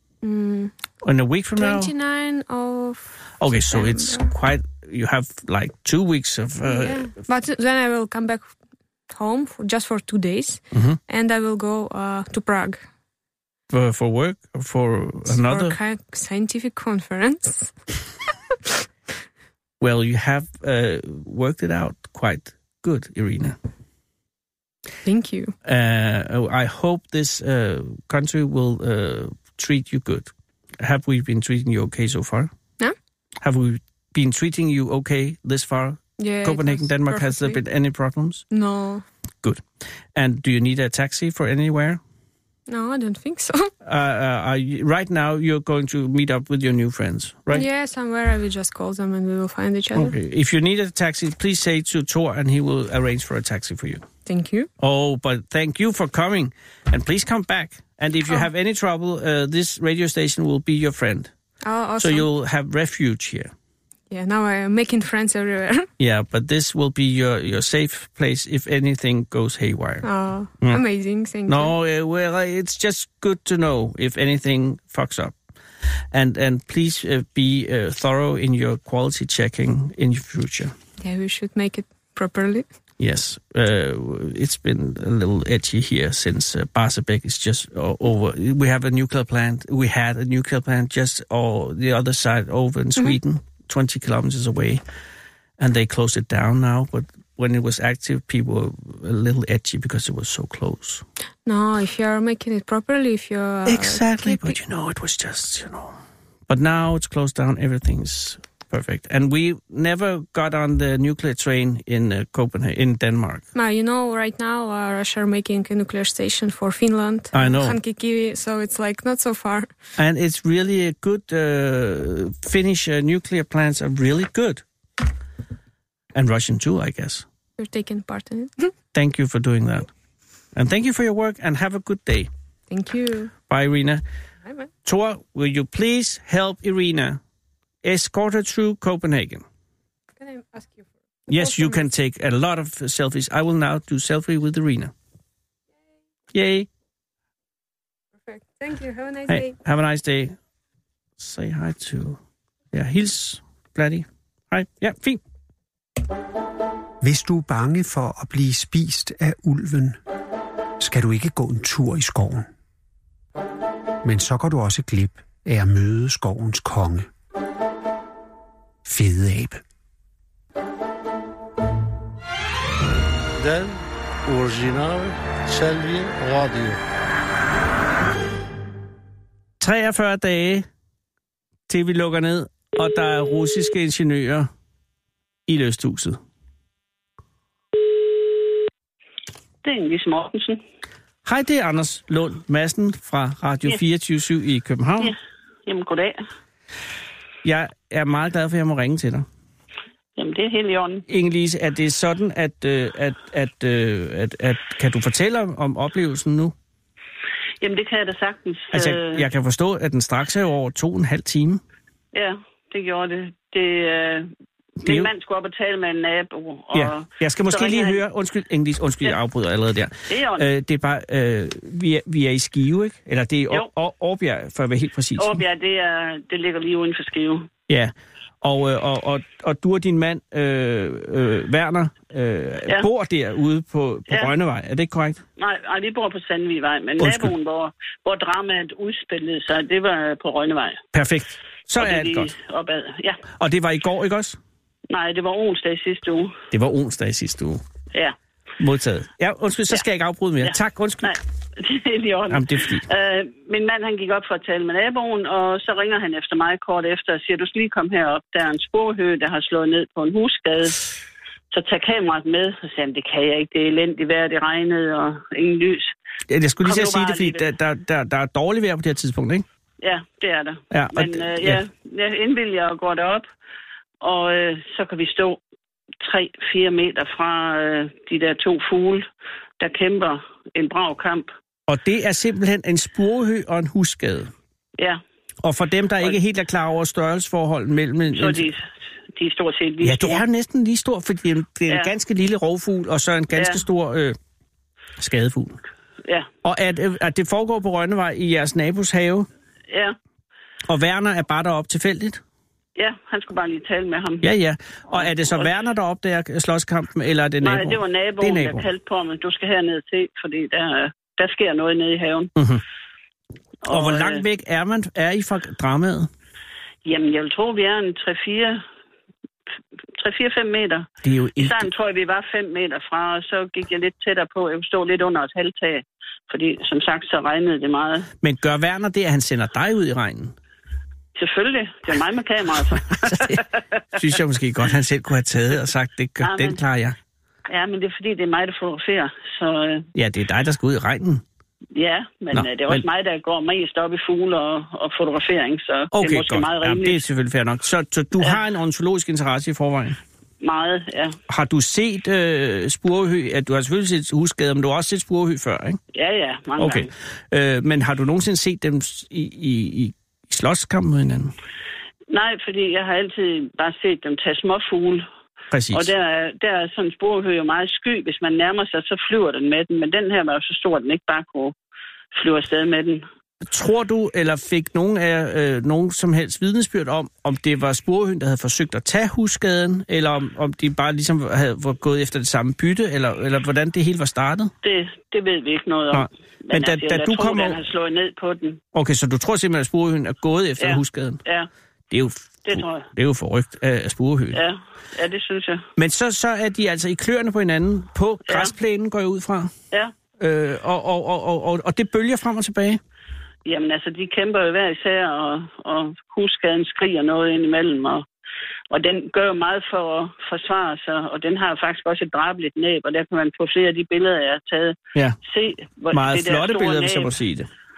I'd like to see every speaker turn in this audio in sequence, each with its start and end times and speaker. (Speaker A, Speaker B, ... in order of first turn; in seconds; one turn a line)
Speaker A: 0.2-0.8
Speaker B: 1.0-1.9
Speaker A: 1.6-4.3
Speaker B: 3.4-7.1
Speaker A: 6.7-8.5
Speaker A: 9.1-12.8
Speaker B: 10.7-11.0
Speaker B: 13.7-15.8
Speaker A: 15.3-17.8
Speaker B: 19.8-23.6
Speaker A: 25.1-25.6
Speaker B: 25.6-32.5
Speaker B: 33.4-38.5
Speaker A: 36.2-37.6
Speaker A: 38.5-39.0
Speaker B: 39.4-42.0
Speaker A: 42.7-43.7
Speaker B: 43.8-47.7
Speaker A: 47.5-50.1
Speaker B: 49.9-54.1
Speaker A: 54.2-54.7
Speaker B: 54.8-61.3
Speaker A: 61.6-62.3
Speaker B: 62.0-63.5
Speaker A: 64.1-65.9
Speaker B: 66.0-70.1
Speaker A: 70.0-71.7
Speaker B: 71.5-75.4
Speaker B: 76.1-80.7
Speaker A: 81.0-82.7
Speaker B: 83.0-94.8
Speaker B: 95.6-101.0
Speaker A: 101.5-104.6
Speaker B: 103.7-106.0
Speaker B: 106.5-113.4
Speaker A: 113.5-119.7
Speaker B: 117.3-117.8
Speaker B: 120.0-124.6
Speaker B: 126.1-127.3
Speaker A: 127.6-128.7
Speaker B: 128.9-129.9
Speaker B: 130.5-132.3
Speaker A: 132.7-133.3
Speaker B: 133.5-134.0
Speaker B: 134.8-137.2
Speaker B: 137.8-139.4
Speaker A: 140.2-141.8
Speaker B: 141.3-144.9
Speaker B: 146.3-146.7
Speaker A: 148.2-149.6
Speaker B: 149.3-150.4
Speaker B: 151.2-152.2
Speaker B: 152.7-155.2
Speaker C: 157.0-160.0
Speaker C: 160.8-162.5
Speaker C: 164.0-167.1
Speaker C: 168.9-169.6
Speaker D: 173.4-176.8
Speaker B: 179.6-180.7
Speaker B: 181.7-184.5
Speaker B: 185.5-186.2
Speaker E: 189.6-190.6
Speaker B: 191.2-195.2
Speaker E: 195.0-196.2
Speaker B: 197.4-199.3
Speaker E: 200.2-201.0
Speaker B: 201.1-206.5
Speaker E: 207.6-209.3
Speaker B: 208.7-211.6
Speaker E: 212.1-214.3
Speaker E: 214.8-218.0
Speaker B: 214.8-215.1
Speaker B: 216.7-225.4
Speaker E: 220.1-220.5
Speaker E: 225.2-227.5
Speaker B: 227.7-235.2
Speaker E: 235.4-240.8
Speaker B: 237.0-237.3
Speaker B: 240.9-242.3
Speaker E: 241.8-243.2
Speaker B: 243.4-244.4
Speaker E: 244.9-246.4
Speaker B: 246.5-247.6
Speaker B: 248.6-251.1
Speaker E: 250.4-260.8
Speaker B: 252.3-252.8
Speaker E: 261.5-265.9
Speaker B: 266.3-269.5
Speaker E: 266.6-267.4
Speaker E: 269.8-273.3
Speaker B: 270.7-271.6
Speaker E: 274.0-275.4
Speaker E: 276.0-279.1
Speaker E: 279.6-281.3
Speaker B: 281.7-284.3
Speaker B: 285.4-288.5
Speaker E: 288.1-290.2
Speaker B: 289.8-294.2
Speaker E: 293.4-293.6
Speaker B: 295.0-295.6
Speaker B: 296.4-299.3
Speaker E: 299.7-300.0
Speaker B: 300.7-302.2
Speaker E: 302.8-304.3
Speaker B: 304.2-308.7
Speaker E: 304.9-305.5
Speaker E: 307.4-312.3
Speaker B: 312.4-312.6
Speaker E: 313.6-314.2
Speaker B: 313.7-316.1
Speaker E: 316.9-318.6
Speaker E: 320.0-328.1
Speaker B: 321.0-321.7
Speaker B: 328.2-330.4
Speaker E: 331.2-333.6
Speaker B: 333.0-333.4
Speaker B: 333.9-337.0
Speaker E: 336.2-336.6
Speaker E: 337.5-339.9
Speaker B: 339.9-341.2
Speaker E: 341.8-347.0
Speaker B: 342.3-342.8
Speaker B: 345.9-350.0
Speaker E: 350.4-351.2
Speaker B: 351.3-355.8
Speaker E: 355.9-356.9
Speaker B: 356.6-361.3
Speaker E: 362.1-365.1
Speaker B: 365.5-365.9
Speaker E: 365.7-371.6
Speaker E: 372.1-373.1
Speaker B: 373.4-384.5
Speaker E: 384.6-388.6
Speaker B: 385.9-387.6
Speaker B: 388.7-391.2
Speaker E: 390.6-391.5
Speaker B: 391.9-394.4
Speaker E: 392.5-392.9
Speaker E: 394.3-395.7
Speaker B: 395.8-399.5
Speaker B: 400.2-402.8
Speaker E: 403.4-408.1
Speaker E: 408.7-417.1
Speaker B: 415.9-417.5